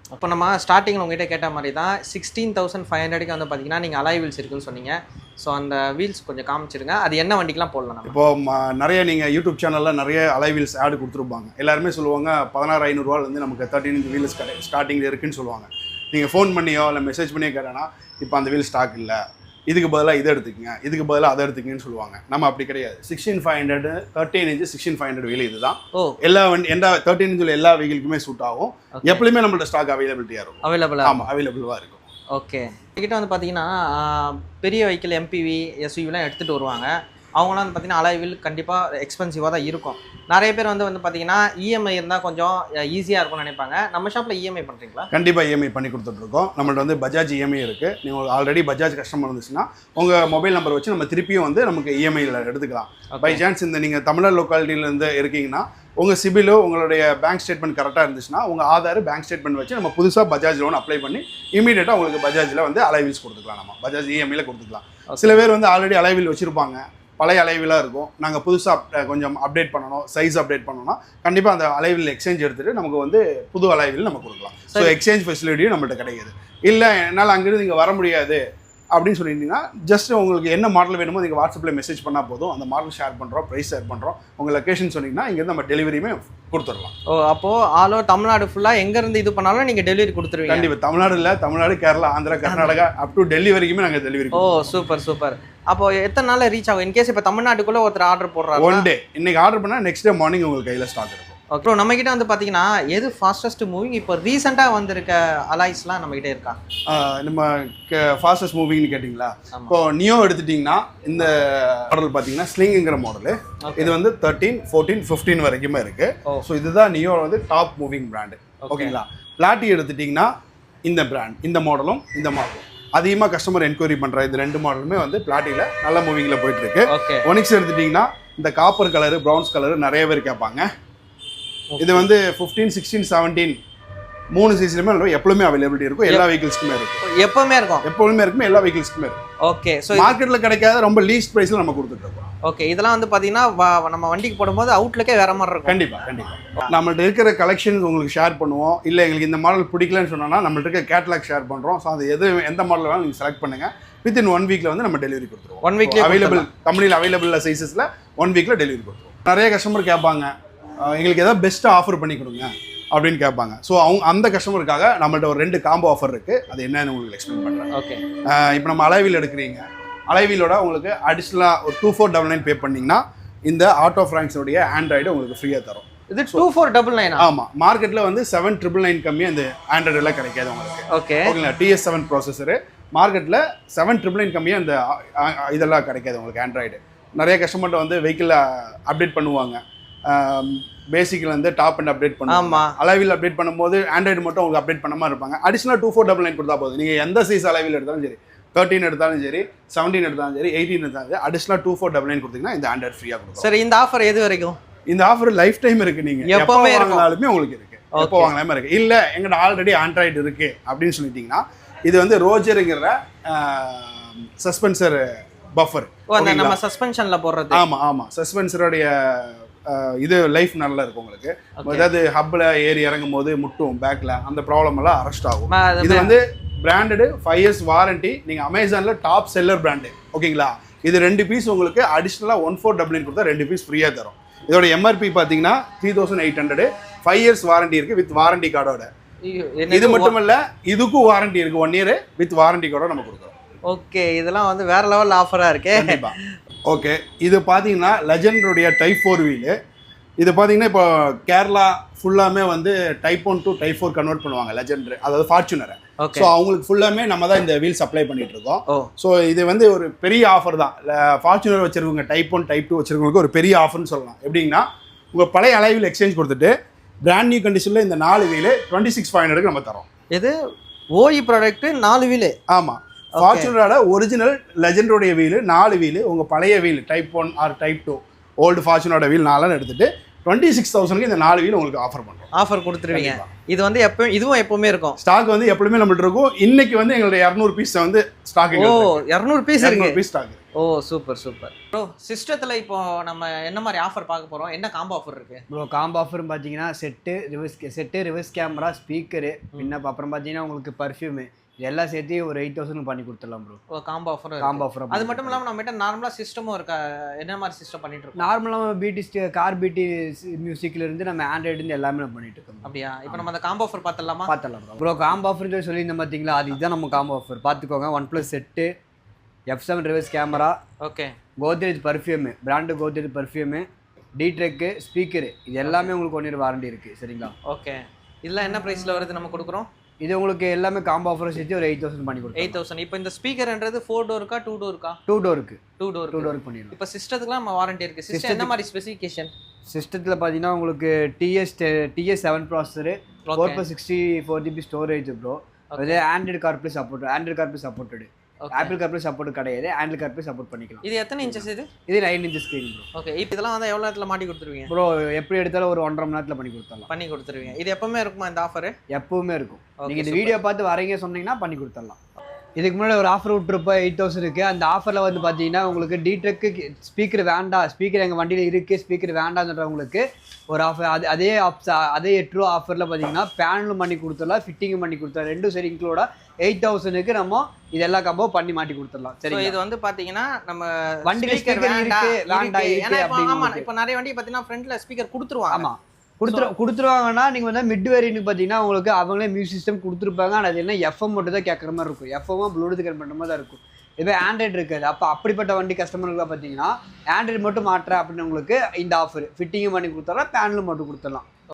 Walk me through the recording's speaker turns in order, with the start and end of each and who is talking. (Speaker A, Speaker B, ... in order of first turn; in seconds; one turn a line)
Speaker A: 0.1-8.2
Speaker B: 8.1-32.1
Speaker A: 28.9-29.2
Speaker A: 30.6-31.2
Speaker A: 32.3-45.1
Speaker B: 45.1-78.4
Speaker A: 53.1-53.4
Speaker A: 65.1-65.4
Speaker B: 78.9-86.9
Speaker A: 87.1-90.7
Speaker B: 90.5-94.7
Speaker A: 92.5-92.8
Speaker A: 94.3-98.8
Speaker B: 98.6-101.3
Speaker A: 101.5-106.6
Speaker B: 106.9-120.3
Speaker A: 113.6-114.0
Speaker A: 118.6-119.0
Speaker B: 120.8-130.7
Speaker A: 126.9-127.3
Speaker A: 131.7-132.1
Speaker B: 131.8-133.6
Speaker B: 134.3-137.0
Speaker A: 137.0-137.8
Speaker B: 137.8-139.2
Speaker A: 139.4-140.2
Speaker B: 139.9-142.3
Speaker A: 142.4-145.8
Speaker B: 145.7-167.7
Speaker A: 155.6-156.5
Speaker A: 167.7-168.0
Speaker B: 168.2-176.5
Speaker A: 176.1-177.2
Speaker B: 177.2-203.5
Speaker A: 180.9-181.4
Speaker A: 192.3-192.7
Speaker A: 203.4-204.6
Speaker B: 204.9-216.6
Speaker A: 206.2-207.1
Speaker A: 208.0-208.3
Speaker A: 216.1-217.6
Speaker B: 217.5-238.9
Speaker A: 221.6-221.9
Speaker A: 225.5-226.2
Speaker A: 239.2-240.2
Speaker B: 239.7-243.3
Speaker A: 243.7-246.2
Speaker B: 245.8-246.2
Speaker B: 246.7-249.6
Speaker B: 250.2-269.9
Speaker A: 256.0-256.3
Speaker A: 270.9-272.4
Speaker B: 272.5-282.3
Speaker A: 273.2-273.5
Speaker A: 282.3-285.0
Speaker B: 282.9-283.3
Speaker B: 285.0-289.0
Speaker A: 288.6-290.0
Speaker B: 289.6-290.4
Speaker A: 290.6-295.4
Speaker C: 295.5-303.6
Speaker A: 303.7-308.3
Speaker C: 304.4-305.4
Speaker C: 308.2-313.3
Speaker A: 312.6-314.3
Speaker C: 314.3-318.7
Speaker C: 319.5-320.6
Speaker A: 320.8-321.1
Speaker C: 321.4-327.4
Speaker A: 325.6-325.9
Speaker A: 327.5-329.7
Speaker C: 330.0-332.6
Speaker A: 332.4-335.0
Speaker C: 335.1-336.8
Speaker A: 335.8-339.3
Speaker C: 338.1-338.5
Speaker C: 339.7-352.9
Speaker A: 343.3-343.6
Speaker A: 345.7-346.0
Speaker A: 348.4-348.8
Speaker A: 350.8-351.7
Speaker A: 352.9-354.7
Speaker C: 354.7-356.9
Speaker A: 356.9-358.8
Speaker C: 358.9-362.0
Speaker A: 359.8-360.4
Speaker C: 362.6-379.6
Speaker A: 379.3-385.7
Speaker C: 381.1-383.7
Speaker C: 385.5-401.2
Speaker A: 386.3-386.5